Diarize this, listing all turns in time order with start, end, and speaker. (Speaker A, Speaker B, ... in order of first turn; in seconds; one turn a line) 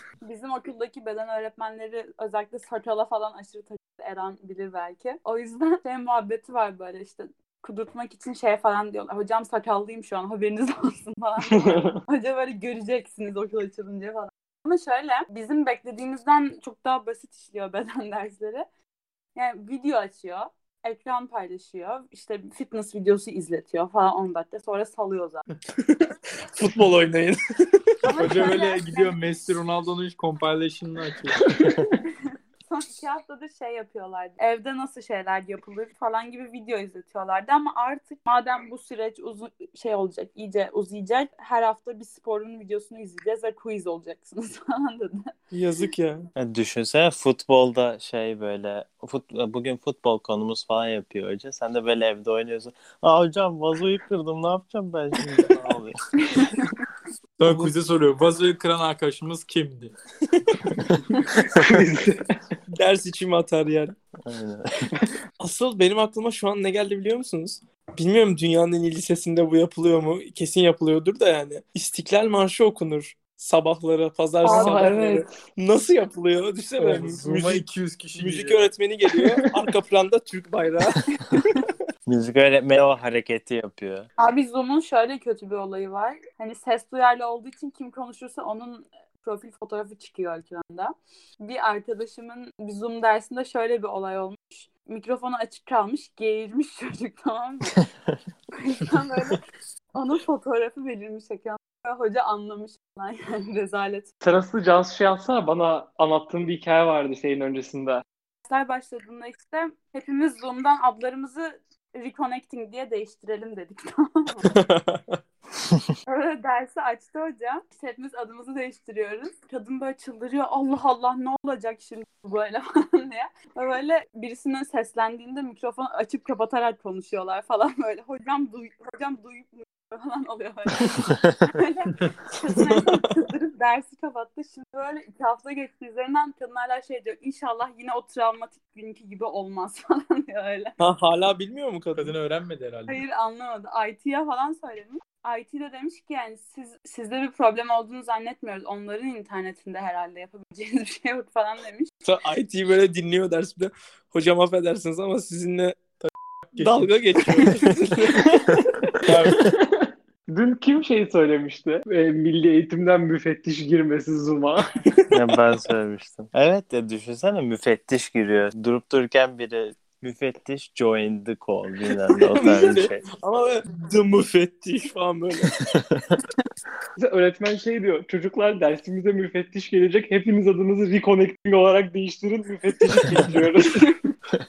Speaker A: 0.2-18.7
Speaker A: 19.4-25.4
Speaker B: 25.9-27.4
Speaker A: 28.0-29.2
Speaker C: 28.2-31.4
Speaker A: 32.7-45.3
Speaker B: 45.5-46.3
Speaker D: 46.4-56.0
Speaker A: 56.3-56.6
Speaker C: 57.4-60.0
Speaker B: 57.4-57.7
Speaker B: 60.3-60.7
Speaker E: 61.6-62.2
Speaker B: 62.7-64.0
Speaker D: 64.3-64.9
Speaker B: 65.4-77.6
Speaker A: 74.4-75.2
Speaker C: 76.8-78.7
Speaker B: 78.2-81.6
Speaker D: 82.1-84.1
Speaker A: 84.2-97.8
Speaker A: 98.5-99.4
Speaker A: 99.9-104.1
Speaker E: 104.3-108.0
Speaker A: 108.5-114.5
Speaker B: 114.5-115.2
Speaker A: 116.1-140.8
Speaker B: 140.8-142.2
Speaker C: 142.0-143.0
Speaker A: 142.9-151.9
Speaker B: 152.0-155.8
Speaker C: 156.0-157.5
Speaker B: 156.6-158.7
Speaker C: 159.0-159.5
Speaker E: 160.3-164.7
Speaker B: 164.9-165.1
Speaker D: 165.1-173.1
Speaker B: 172.2-175.5
Speaker E: 177.0-183.9